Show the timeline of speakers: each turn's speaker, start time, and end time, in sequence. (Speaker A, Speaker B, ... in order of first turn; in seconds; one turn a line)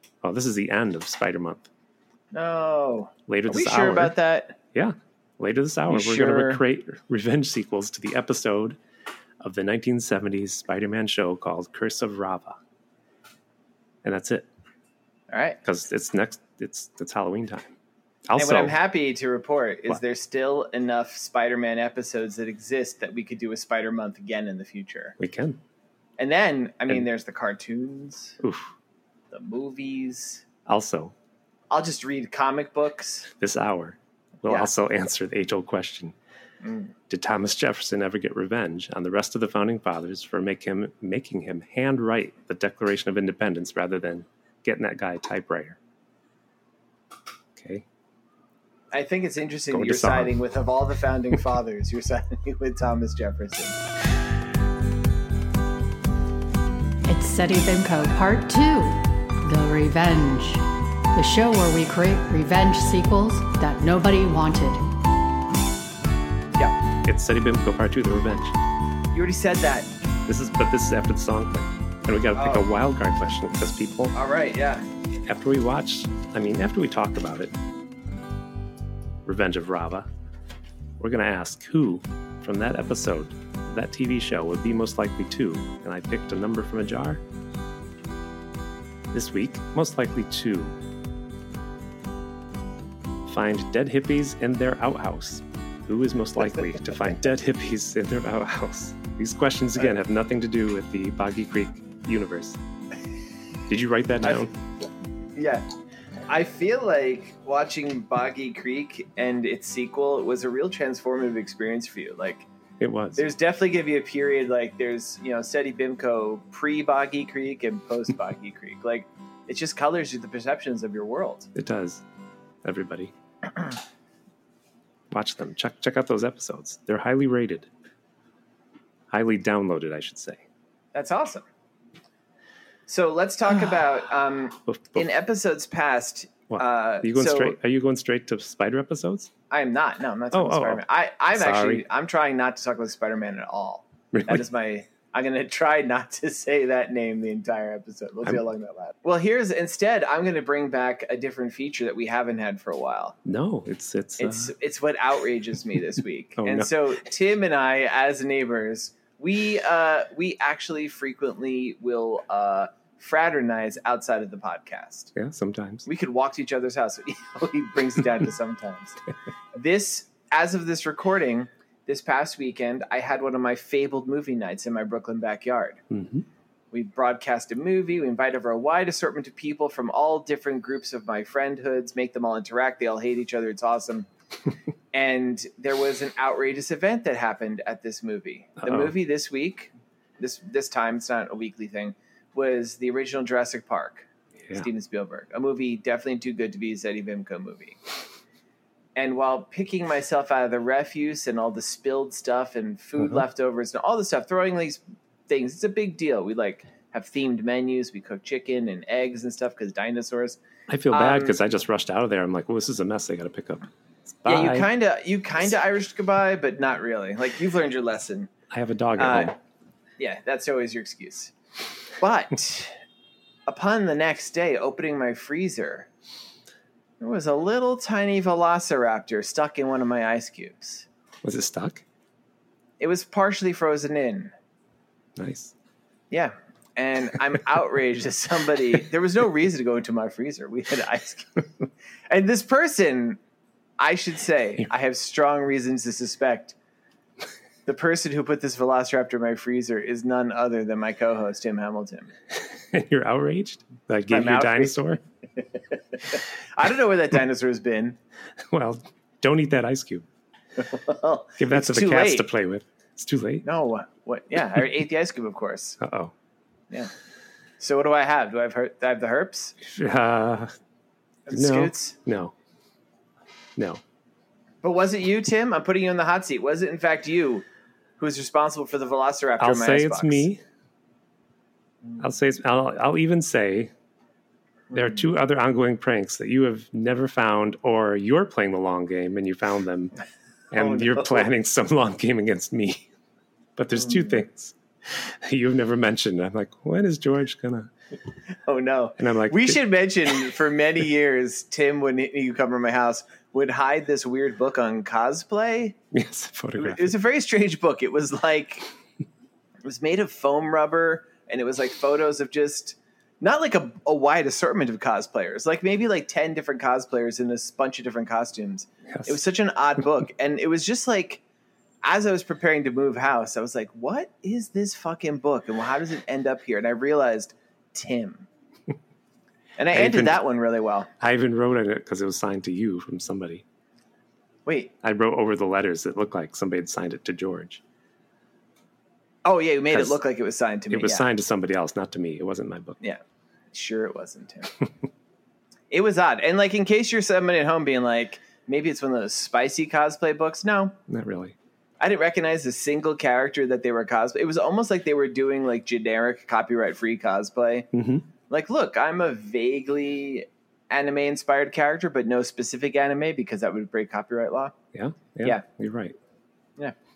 Speaker A: 0.2-1.7
Speaker B: 2.3-4.6
Speaker A: 3.3-4.2
Speaker A: 4.7-8.8
Speaker B: 5.9-6.6
Speaker A: 9.4-12.6
Speaker A: 14.0-14.5
Speaker B: 15.3-15.6
Speaker A: 15.6-17.7
Speaker A: 18.3-18.8
Speaker B: 18.4-25.2
Speaker A: 25.2-25.6
Speaker B: 26.2-28.4
Speaker A: 28.4-28.7
Speaker B: 29.3-30.4
Speaker A: 30.7-31.1
Speaker B: 31.7-33.3
Speaker A: 33.4-36.1
Speaker B: 36.6-36.9
Speaker A: 37.1-45.8
Speaker A: 47.6-47.9
Speaker B: 48.9-53.8
Speaker A: 49.7-50.4
Speaker C: 57.1-64.8
Speaker A: 67.0-68.6
Speaker B: 69.1-69.9
Speaker A: 70.3-74.1
Speaker B: 72.4-72.7
Speaker B: 74.1-74.8
Speaker A: 75.3-77.5
Speaker A: 79.3-80.1
Speaker A: 81.0-87.2
Speaker A: 89.1-90.8
Speaker A: 93.3-102.6
Speaker A: 103.7-104.5
Speaker B: 105.4-105.7
Speaker B: 106.3-112.5
Speaker A: 112.8-113.2
Speaker B: 113.2-121.5
Speaker A: 121.5-122.0
Speaker A: 122.6-123.1
Speaker A: 125.1-127.7
Speaker A: 129.1-130.4
Speaker B: 130.9-131.5
Speaker B: 132.9-137.6
Speaker A: 134.7-135.1
Speaker A: 136.5-139.3
Speaker B: 139.5-153.2
Speaker A: 140.3-141.8
Speaker A: 144.1-144.4
Speaker A: 153.2-154.5
Speaker B: 154.2-165.1
Speaker A: 156.4-156.7
Speaker A: 165.2-165.9
Speaker B: 165.9-169.0
Speaker B: 169.6-175.8
Speaker A: 175.9-176.2
Speaker B: 176.7-184.1
Speaker B: 184.9-197.8
Speaker A: 188.6-188.9
Speaker B: 199.0-210.4
Speaker A: 203.0-203.2
Speaker A: 210.7-213.7
Speaker B: 210.9-211.3
Speaker A: 214.2-214.7
Speaker B: 214.3-218.3
Speaker A: 218.5-219.3
Speaker B: 219.0-219.3
Speaker B: 220.0-221.3
Speaker B: 222.0-222.8
Speaker B: 223.5-225.9
Speaker B: 227.0-230.9
Speaker A: 231.2-231.8
Speaker B: 232.8-234.3
Speaker A: 235.2-235.5
Speaker B: 236.1-241.5
Speaker B: 242.1-243.2
Speaker B: 243.8-246.6
Speaker B: 247.7-252.1
Speaker A: 252.3-255.0
Speaker B: 254.1-254.8
Speaker B: 255.7-258.0
Speaker A: 258.5-260.1
Speaker B: 260.6-262.3
Speaker A: 261.4-263.4
Speaker B: 263.4-265.8
Speaker A: 265.8-266.1
Speaker B: 267.6-269.6
Speaker A: 269.6-270.5
Speaker B: 271.3-271.9
Speaker A: 271.3-272.3
Speaker B: 274.6-277.4
Speaker B: 278.0-280.3
Speaker A: 279.4-280.4
Speaker A: 282.0-283.7
Speaker A: 284.7-289.9
Speaker A: 290.5-292.9
Speaker B: 290.6-291.3
Speaker A: 293.6-297.7
Speaker B: 293.8-294.2
Speaker B: 298.5-305.8
Speaker A: 299.0-300.2
Speaker A: 305.9-306.9
Speaker B: 306.6-308.7
Speaker B: 309.6-321.2
Speaker A: 318.9-319.2
Speaker B: 321.8-328.3
Speaker B: 329.6-330.9
Speaker A: 329.7-330.2
Speaker A: 331.0-333.4
Speaker B: 334.5-334.7
Speaker A: 334.8-337.6
Speaker B: 339.2-341.1
Speaker A: 339.7-340.0
Speaker A: 340.7-342.8
Speaker B: 343.5-344.6
Speaker B: 345.7-350.8
Speaker A: 350.9-351.4
Speaker B: 351.8-357.7
Speaker A: 357.7-358.1
Speaker B: 358.3-364.5
Speaker A: 364.7-366.0